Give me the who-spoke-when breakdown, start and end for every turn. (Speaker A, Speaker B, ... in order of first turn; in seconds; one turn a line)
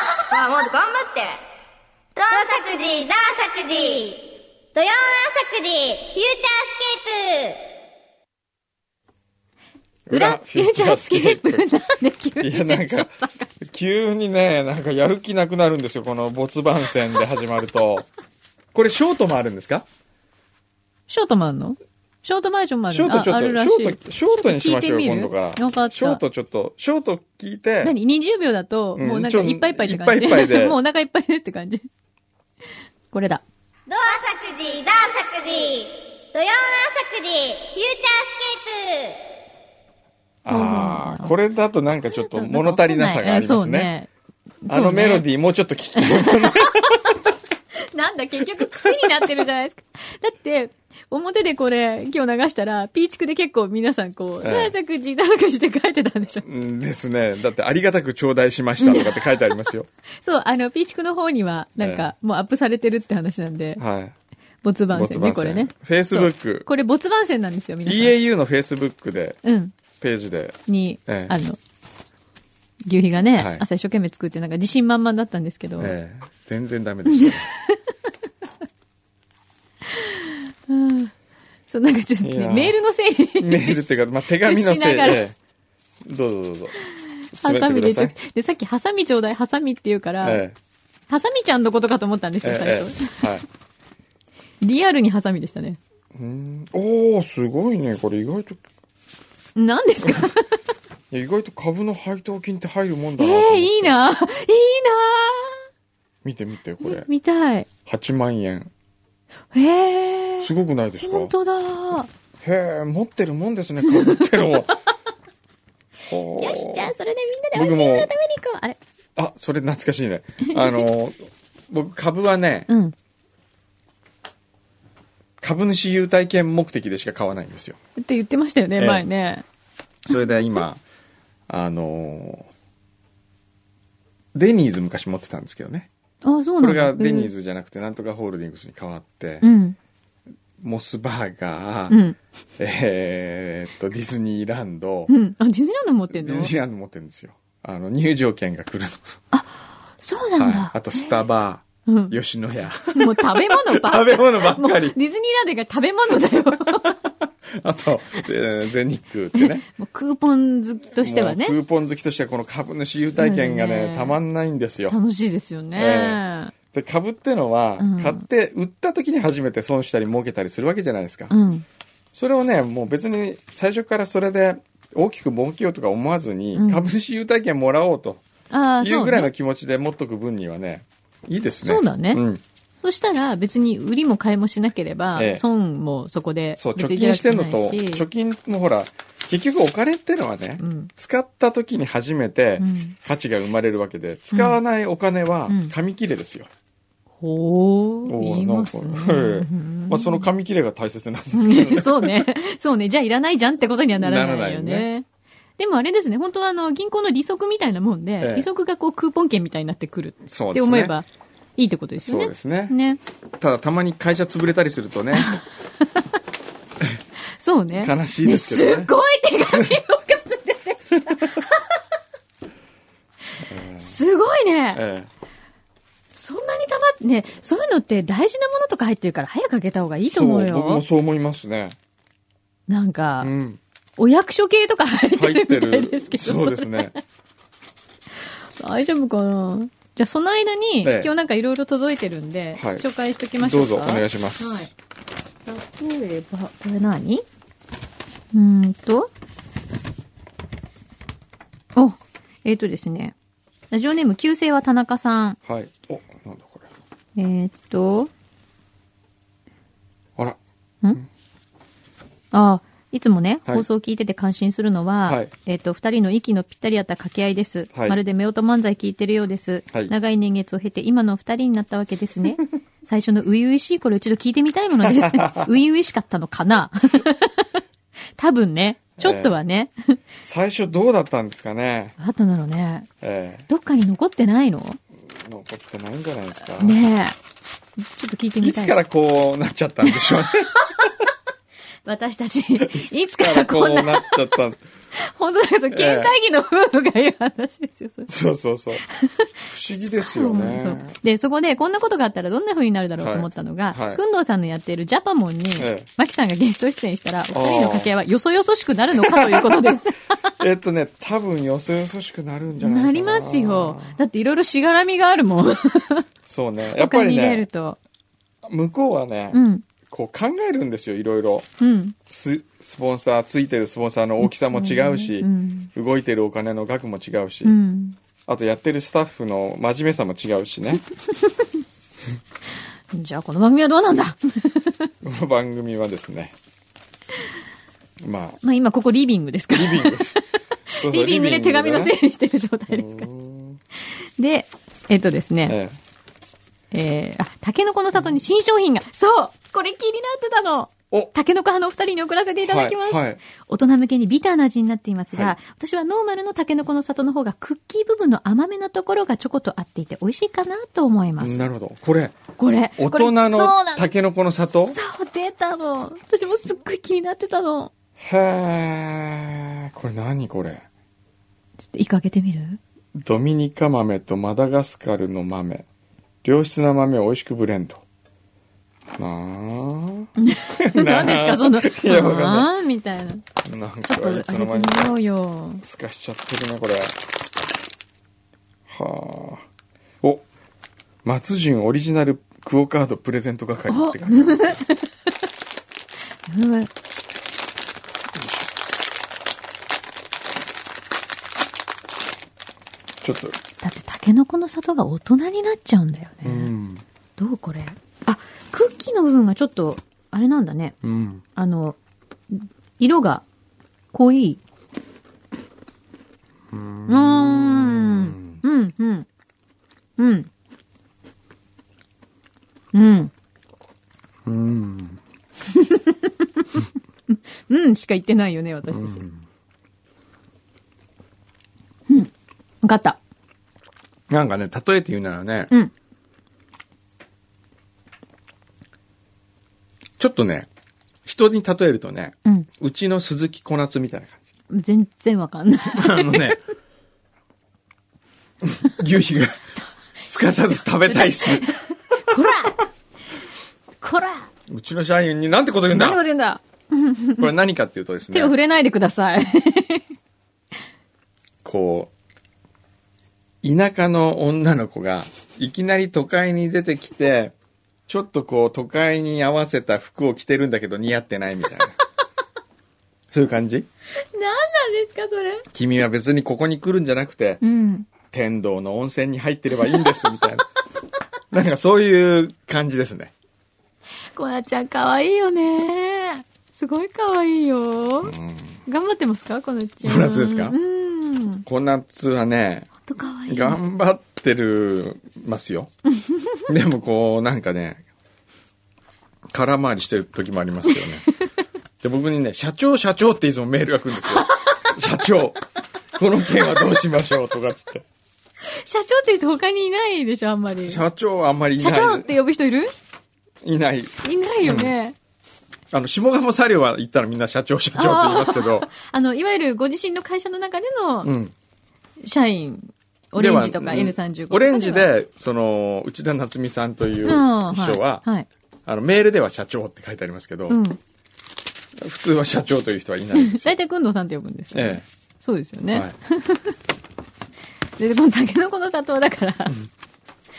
Speaker A: 0.2-1.4
Speaker A: 2.1-7.6
Speaker B: 10.1-11.6
Speaker C: 10.1-13.5
Speaker B: 12.4-18.1
Speaker B: 18.7-19.9
Speaker C: 21.1-26.2
Speaker B: 22.9-27.9
Speaker C: 27.8-31.8
Speaker B: 28.9-30.8
Speaker C: 33.1-33.4
Speaker A: 33.9-39.2
Speaker B: 40.4-43.9
Speaker C: 40.5-41.3
Speaker C: 42.0-44.1
Speaker C: 44.6-45.2
Speaker B: 44.7-47.1
Speaker C: 46.0-47.1
Speaker C: 47.9-56.4
Speaker B: 54.4-54.7
Speaker B: 56.4-59.9
Speaker C: 58.8-59.5
Speaker C: 60.2-63.8
Speaker B: 61.8-62.1
Speaker B: 63.8-64.1
Speaker C: 64.6-68.2
Speaker B: 64.9-66.7
Speaker B: 67.8-69.4
Speaker C: 69.4-69.7
Speaker B: 70.0-71.3
Speaker C: 70.7-71.6
Speaker C: 72.8-75.9
Speaker B: 73.3-73.6
Speaker B: 75.8-77.5
Speaker C: 77.1-77.8
Speaker C: 79.9-81.1
Speaker C: 81.7-85.2
Speaker B: 82.2-82.7
Speaker B: 83.4-85.4
Speaker B: 86.0-86.8
Speaker B: 87.3-88.1
Speaker C: 87.4-90.4
Speaker B: 90.2-90.5
Speaker C: 91.1-93.3
Speaker B: 92.4-93.4
Speaker C: 94.6-95.8
Speaker B: 96.1-98.6
Speaker C: 99.5-100.5
Speaker B: 101.1-103.9
Speaker C: 103.2-105.7
Speaker B: 106.2-107.1
Speaker C: 106.8-107.7
Speaker B: 107.8-108.7
Speaker C: 109.5-112.1
Speaker B: 110.4-111.3
Speaker B: 112.4-114.8
Speaker C: 114.1-114.5
Speaker B: 116.1-116.9
Speaker C: 116.4-118.8
Speaker B: 117.5-118.1
Speaker B: 119.2-122.7
Speaker C: 120.4-120.8
Speaker C: 122.7-122.9
Speaker B: 125.4-127.8
Speaker C: 128.0-129.4
Speaker B: 128.8-129.0
Speaker B: 130.1-130.8
Speaker B: 131.5-132.5
Speaker B: 134.3-135.9
Speaker C: 136.2-137.3
Speaker B: 136.6-139.5
Speaker C: 139.4-139.8
Speaker B: 140.6-142.0
Speaker C: 141.9-142.2
Speaker B: 142.6-145.1
Speaker C: 145.1-146.5
Speaker B: 146.1-149.2
Speaker C: 149.3-151.2
Speaker B: 150.4-154.9
Speaker C: 151.8-152.2
Speaker C: 152.9-157.0
Speaker B: 157.5-159.7
Speaker C: 159.4-161.6
Speaker B: 161.0-165.0
Speaker C: 163.2-164.2
Speaker C: 164.9-166.5
Speaker B: 165.7-171.3
Speaker C: 167.8-168.2
Speaker C: 171.3-171.6
Speaker B: 172.1-178.2
Speaker C: 176.5-176.8
Speaker C: 178.5-179.3
Speaker B: 178.8-182.4
Speaker C: 181.6-182.2
Speaker C: 182.8-188.1
Speaker B: 185.2-185.4
Speaker B: 186.6-196.5
Speaker C: 190.6-190.9
Speaker C: 192.6-192.9
Speaker C: 194.3-194.6
Speaker C: 195.5-195.7
Speaker C: 197.2-200.3
Speaker B: 198.0-202.2
Speaker C: 201.3-205.1
Speaker B: 204.0-204.9
Speaker C: 205.6-211.1
Speaker B: 208.2-208.5
Speaker B: 210.2-210.9
Speaker C: 211.6-213.0
Speaker B: 212.0-212.8
Speaker B: 213.4-215.3
Speaker C: 215.1-216.0
Speaker C: 217.4-221.7
Speaker B: 217.8-218.9
Speaker B: 219.5-219.8
Speaker B: 221.1-221.4
Speaker B: 223.4-223.9
Speaker C: 223.7-224.8
Speaker B: 224.7-225.1
Speaker C: 226.2-230.8
Speaker B: 230.1-231.8
Speaker C: 232.7-233.3
Speaker B: 233.2-233.6
Speaker C: 234.0-237.0
Speaker B: 235.1-236.9
Speaker C: 238.6-244.7
Speaker B: 240.8-241.1
Speaker B: 242.6-242.8
Speaker B: 243.4-244.7
Speaker C: 245.4-247.2
Speaker C: 248.3-249.1
Speaker C: 251.8-253.1
Speaker C: 253.7-255.4
Speaker B: 255.5-256.7
Speaker C: 257.1-258.1
Speaker C: 262.3-277.6
Speaker B: 274.8-275.5
Speaker C: 278.2-280.0
Speaker B: 279.0-279.4
Speaker B: 280.2-281.9
Speaker C: 282.0-282.9
Speaker B: 283.0-283.4
Speaker C: 283.5-284.8
Speaker B: 285.0-286.8
Speaker C: 286.6-287.2
Speaker C: 287.9-288.8
Speaker B: 288.4-290.9
Speaker C: 289.9-291.1
Speaker C: 291.9-294.4
Speaker B: 292.6-294.6
Speaker C: 294.9-298.1
Speaker B: 295.7-296.1
Speaker B: 298.1-298.8
Speaker C: 298.9-310.3
Speaker B: 299.5-300.9
Speaker B: 303.0-304.0
Speaker B: 305.6-305.9
Speaker B: 307.3-307.9
Speaker B: 309.0-309.7
Speaker B: 310.4-314.0
Speaker C: 312.6-316.0
Speaker B: 316.2-317.4
Speaker C: 316.7-317.8
Speaker B: 318.4-321.5
Speaker C: 319.3-319.6
Speaker C: 321.6-321.9
Speaker B: 322.1-327.6
Speaker C: 324.2-325.7
Speaker C: 327.4-328.0
Speaker B: 328.2-330.8
Speaker C: 332.9-334.9
Speaker B: 335.0-336.3
Speaker B: 338.0-338.4
Speaker C: 338.4-343.1
Speaker B: 339.5-340.2
Speaker B: 340.8-341.9
Speaker B: 342.7-343.6
Speaker C: 344.2-345.6
Speaker B: 345.5-345.8
Speaker C: 346.7-361.5
Speaker B: 352.4-353.2
Speaker B: 361.2-362.2
Speaker C: 362.4-363.9
Speaker B: 362.8-364.8
Speaker C: 364.7-367.7
Speaker B: 368.0-370.6
Speaker C: 371.7-372.6
Speaker B: 372.9-375.6
Speaker B: 376.2-377.8
Speaker B: 378.9-382.5
Speaker C: 380.2-383.2
Speaker B: 383.4-384.9
Speaker C: 383.9-385.6
Speaker B: 385.6-386.9
Speaker B: 388.7-389.4
Speaker B: 391.0-394.6
Speaker C: 393.7-394.9
Speaker C: 396.3-396.7
Speaker B: 398.1-398.5
Speaker B: 403.0-403.4
Speaker C: 403.6-406.5
Speaker B: 406.2-406.8
Speaker C: 407.2-410.8
Speaker B: 410.8-411.2
Speaker C: 411.4-411.8
Speaker C: 412.3-413.2
Speaker C: 413.9-414.4
Speaker B: 416.5-418.4
Speaker C: 416.9-419.1
Speaker C: 420.0-420.3
Speaker C: 422.7-423.1
Speaker B: 424.2-425.0
Speaker C: 425.5-429.0
Speaker B: 428.7-429.2
Speaker C: 432.6-433.0
Speaker B: 434.1-435.5
Speaker B: 440.0-440.5
Speaker B: 441.0-444.2
Speaker C: 444.5-446.4
Speaker B: 445.7-446.4
Speaker B: 448.4-449.4
Speaker B: 450.1-451.5
Speaker C: 450.9-452.6
Speaker C: 453.8-454.3
Speaker B: 454.5-456.0
Speaker C: 455.7-457.2
Speaker B: 457.2-458.3
Speaker C: 458.1-459.8
Speaker B: 461.4-461.9
Speaker B: 463.4-467.3
Speaker B: 467.9-471.8
Speaker B: 473.1-473.7
Speaker C: 474.0-475.5
Speaker B: 475.5-477.4
Speaker C: 477.4-477.9
Speaker B: 478.0-480.5
Speaker B: 481.3-483.1
Speaker C: 484.1-491.4
Speaker B: 488.0-488.6
Speaker B: 489.8-490.6
Speaker B: 491.4-492.7
Speaker C: 492.8-493.6
Speaker B: 493.3-495.7
Speaker B: 496.5-497.8
Speaker B: 499.3-501.1
Speaker B: 501.8-505.4
Speaker C: 504.2-504.7
Speaker B: 505.9-507.8
Speaker C: 508.4-510.8
Speaker B: 510.6-512.1
Speaker C: 511.6-512.7
Speaker B: 513.4-514.7
Speaker C: 514.0-514.9
Speaker B: 515.7-518.7
Speaker C: 517.7-521.1
Speaker B: 521.0-521.3
Speaker C: 522.0-524.9
Speaker B: 523.2-528.0
Speaker C: 527.0-528.3
Speaker B: 528.6-530.6
Speaker C: 530.5-530.8
Speaker B: 531.8-533.5
Speaker C: 533.1-536.5
Speaker B: 534.5-534.8
Speaker C: 537.8-539.6